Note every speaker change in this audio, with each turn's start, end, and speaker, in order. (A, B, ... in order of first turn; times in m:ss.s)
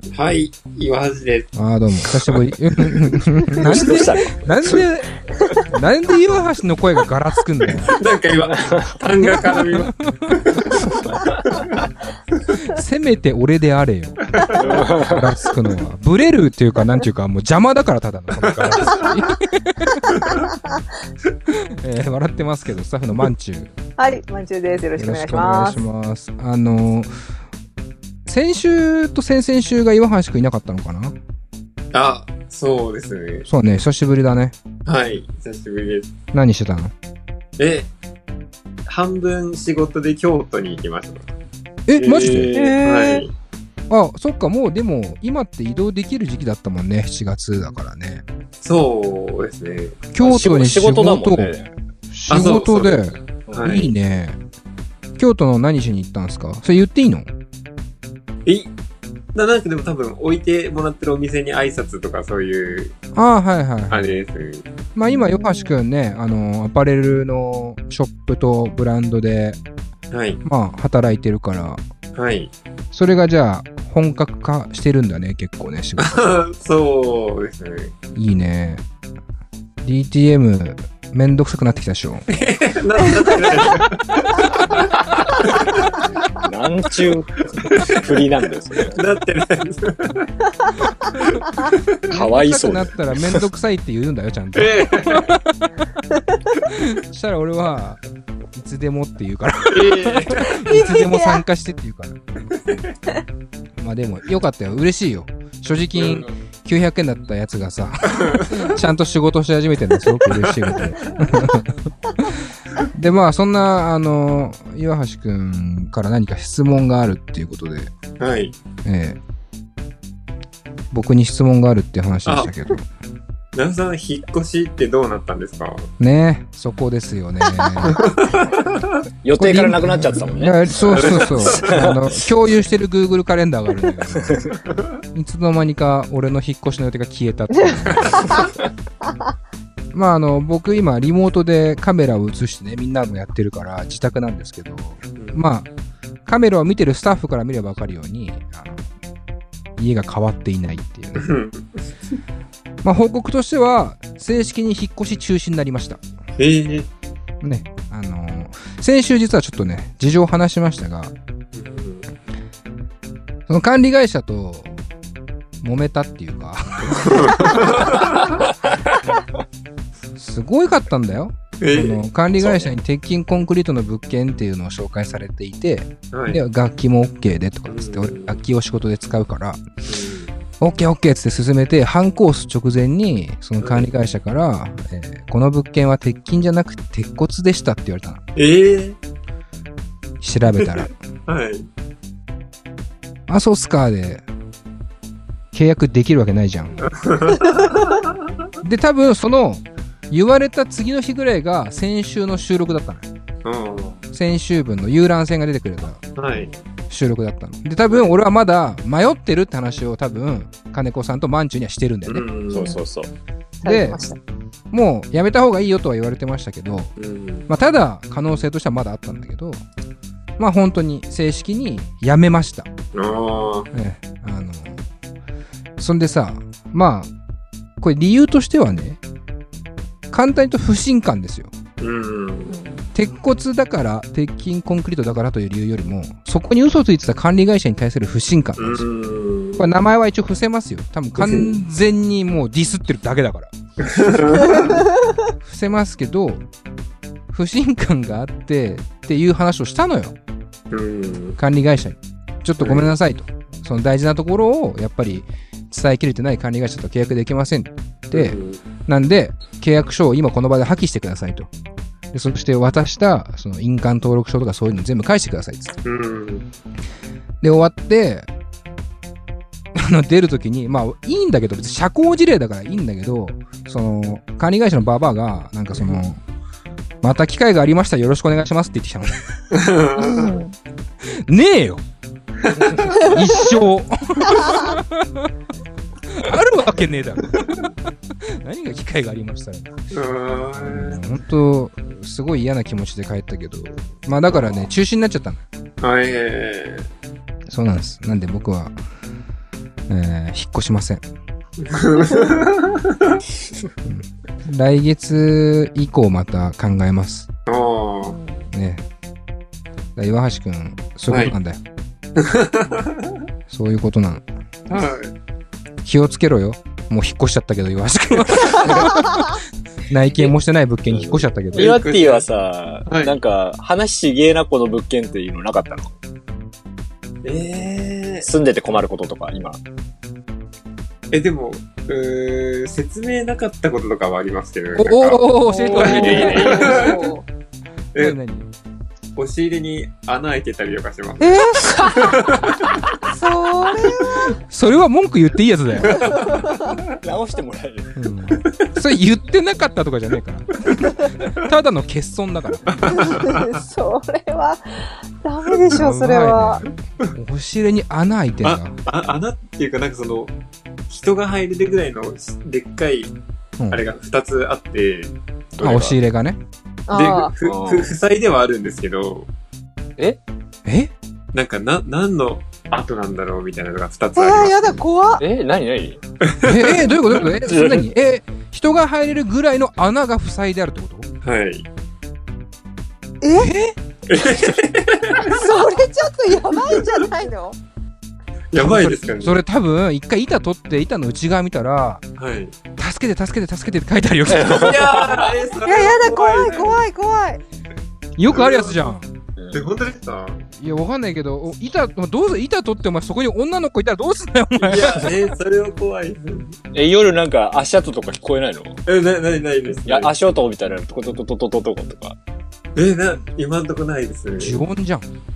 0:00.1-0:01.5 A
0:01.5-0:05.1 B
0:03.5-0:04.8 C
0:05.4-0:05.6 C
0:05.6-0:08.0 B
0:07.8-0:11.8 A
0:08.6-0:08.9 C
0:09.3-0:10.9 B
0:11.1-0:11.4 C
0:12.6-0:14.2 B
0:14.3-0:14.9 A
0:14.5-0:15.3 C
0:15.0-0:20.2 B
0:18.4-0:19.3 A
0:20.1-0:20.5 A
0:21.6-0:23.7 B
0:24.0-0:25.8 D
0:25.0-0:27.1 B
0:28.2-0:31.1 B
0:31.9-0:33.5 A
0:33.4-0:34.6 B
0:34.9-0:36.1 A
0:36.3-0:36.9 B
0:37.6-0:37.9 A
0:38.9-0:41.3 A
0:41.9-0:42.8 B
0:42.0-0:43.3 A
0:42.2-0:42.8 C
0:42.5-0:43.2 D
0:43.9-0:48.2 B
0:48.6-0:50.1 A
0:50.1-0:51.6 B
0:50.2-0:51.7 C
0:52.1-0:54.4 B
0:52.3-0:53.9 A
0:55.2-0:57.3 B
0:59.3-1:02.9 A
1:03.1-1:04.1 B
1:03.9-1:04.7 A
1:05.0-1:09.6 B
1:05.1-1:05.8 D
1:10.1-1:10.4 A
1:10.4-1:11.8 B
1:12.2-1:12.5 A
1:12.9-1:16.3 B
1:16.0-1:18.0 A
1:18.1-1:18.8 B
1:19.8-1:22.5 B
1:22.3-1:24.8 A
1:25.4-1:26.0 A
1:26.4-1:29.0 C
1:27.5-1:32.1 A
1:32.1-1:33.4 C
1:32.1-1:35.6 B
1:34.6-1:35.3 A
1:36.7-1:38.0 B
1:38.5-1:42.4 B
1:39.7-1:40.6 A
1:40.6-1:41.4 D
1:43.8-1:57.9 B
1:46.0-1:46.3 A
1:48.1-1:48.8 A
1:48.5-1:48.8 D
1:50.2-1:51.1 A
1:58.2-1:58.6 A
1:58.8-1:59.2 B
2:00.9-2:02.9 B
2:02.3-2:02.5 A
2:03.5-2:05.9 A
2:06.0-2:08.1 B
2:07.8-2:09.0 A
2:09.2-2:12.2 C
2:09.4-2:14.5 B
2:10.9-2:11.7 A
2:14.2-2:14.6 C
2:14.7-2:15.0 A
2:15.1-2:18.4 B
2:19.9-2:25.7 B
2:26.2-2:28.8 B
2:29.8-2:31.3 B
2:31.2-2:31.8 A
2:32.8-2:36.0 B
2:36.4-2:36.9 A
2:37.4-2:41.1 B
2:41.5-2:42.1 A
2:43.5-2:44.7 B
2:45.6-2:47.8 B
2:46.9-2:48.4 A
2:50.2-2:59.6 B
2:51.6-2:52.7 A
2:56.1-2:56.4 A
2:57.7-2:58.4 A
2:59.8-3:00.3 A
3:00.6-3:08.2 B
3:03.6-3:03.9 A
3:08.4-3:09.0 A
3:10.2-3:10.9 B
3:10.6-3:11.7 A
3:13.3-3:14.2 B
3:15.5-3:16.8 B
3:16.8-3:18.1 A
3:18.6-3:23.1 B
3:23.4-3:24.0 A
3:24.1-3:26.0 B
3:26.2-3:26.5 A
3:26.9-3:32.2 B
3:27.9-3:28.1 A
3:32.1-3:32.7 A
3:32.5-3:33.1 C
3:33.6-3:34.2 D
3:33.6-3:34.0 B
3:34.7-3:36.9 B
3:37.0-3:37.5 A
3:37.5-3:39.6 B
3:40.4-3:42.7 B
3:42.9-3:43.7 A
3:43.7-3:44.8 B
3:45.8-3:47.1 B
3:47.8-3:49.0 B
3:50.1-3:51.5 B
3:51.8-3:52.5 A
3:52.5-3:52.9 D
3:52.9-3:58.8 B
3:58.6-3:59.6 A
3:59.6-4:04.7 B
4:01.2-4:01.6 A
4:03.8-4:04.8 A
4:05.4-4:06.4 B
4:07.3-4:10.1 B
4:10.7-4:11.4 A
4:11.4-4:21.5 B
4:12.6-4:12.9 A
4:18.1-4:18.6 A
4:22.1-4:25.7 B
4:25.8-4:26.4 A
4:27.4-4:28.3 B
4:29.7-4:36.2 B
4:35.8-4:36.1 A
4:37.0-4:39.4 B
4:39.5-4:40.4 A
4:40.0-4:40.6 D
4:41.0-4:41.8 B
4:42.4-4:42.8 A
4:43.0-4:45.3 B
4:46.0-4:49.9 B
4:49.9-4:51.0 A
4:50.5-4:55.4 B
4:55.8-4:56.9 A
4:57.5-4:58.8 B
4:59.9-5:01.1 B
5:01.6-5:03.2 A
5:03.8-5:07.3 B
5:07.5-5:08.2 A
5:08.0-5:08.5 D
5:08.5-5:08.8 B
5:10.0-5:11.6 B
5:11.1-5:11.3 A
5:12.2-5:13.2 A
5:13.5-5:14.8 B
5:14.7-5:15.1 A
5:15.8-5:19.3 B
5:19.9-5:21.8 B
5:20.9-5:25.9 C
5:21.5-5:22.3 A
5:22.9-5:23.2 A
5:27.2-5:28.3 A
5:28.2-5:29.6 C
5:31.1-5:37.1 A
5:34.8-5:36.7 B
5:35.4-5:37.2 D
5:35.8-5:36.9 C
5:38.0-5:38.5 B
5:39.2-5:42.8 A
5:41.2-5:42.2 D
5:43.0-5:44.4 D
5:44.1-5:46.0 B
5:45.8-5:46.8 A
5:46.0-5:46.7 D
5:47.0-5:47.9 C
5:48.0-5:52.8 B
5:52.7-5:53.5 A
5:52.9-5:56.6 D
5:55.7-5:58.8 B
5:58.4-6:00.3 A
6:00.9-6:03.1 A
6:03.7-6:06.0 A
6:05.6-6:06.4 B
6:06.9-6:07.3 D
6:06.9-6:09.3 A
6:07.4-6:07.9 C
6:10.6-6:10.9 B
6:11.3-6:14.7 A
6:14.2-6:15.2 D
6:15.2-6:16.0 C
6:16.2-6:17.3 A
6:16.4-6:21.1 B
6:17.5-6:17.8 C
6:21.2-6:21.7 A
6:23.2-6:23.5 D
6:23.4-6:23.8 B
6:24.1-6:25.6 A
6:25.3-6:27.6 D
6:28.5-6:29.4 A
6:28.6-6:32.0 B
6:32.2-6:32.6 A
6:32.8-6:34.9 B
6:34.3-6:35.3 C
6:34.4-6:36.8 A
6:35.6-6:37.4 D
6:38.2-6:39.1 B
6:38.3-6:38.8 A
6:39.5-6:40.4 A
6:40.6-6:45.2 B
6:44.6-6:46.6 A
6:46.7-6:48.8 C
6:48.8-6:50.1 A
6:49.8-6:52.2 C
6:52.8-6:54.6 A
6:54.4-6:55.1 B